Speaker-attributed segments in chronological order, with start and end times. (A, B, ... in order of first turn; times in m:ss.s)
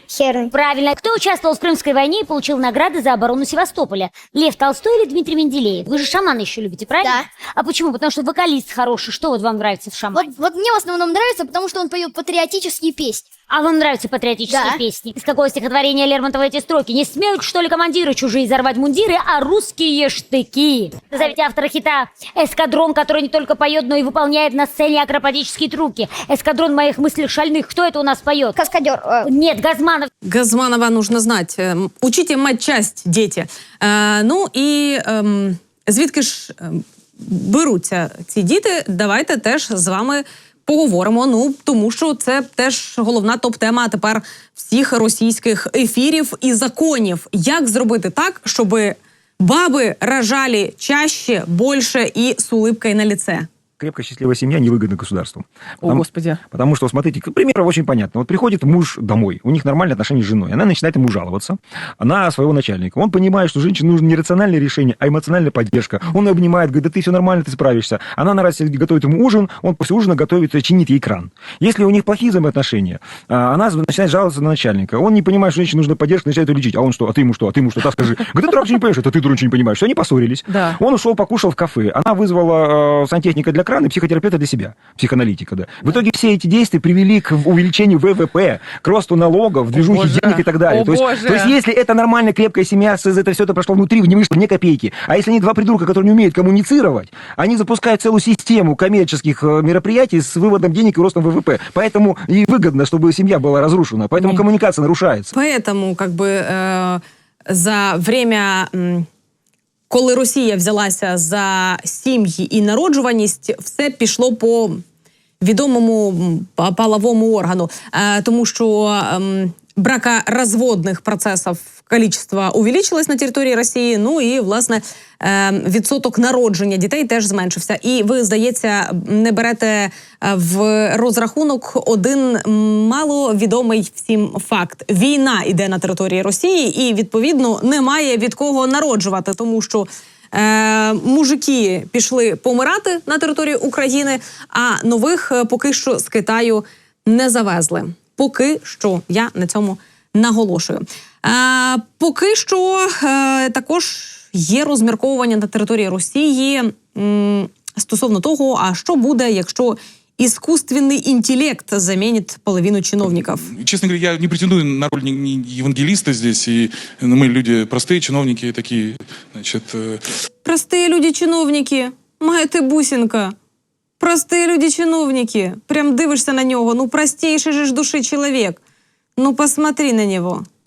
0:00.1-0:00.5 A
0:00.5-0:10.3 B
0:07.0-0:07.3 A
0:10.1-0:13.3 A
0:13.5-0:28.6 B
0:14.5-0:14.8 A
0:28.5-0:29.3 A
0:29.2-0:30.1 B
0:30.2-0:53.5 C
0:53.8-1:45.3 D
1:45.3-1:49.1 C
1:49.9-1:54.8 C
1:55.4-2:43.5 C
2:43.5-2:50.0 E
2:50.4-2:53.3 C
2:54.0-2:58.6 C
2:59.2-3:00.4 C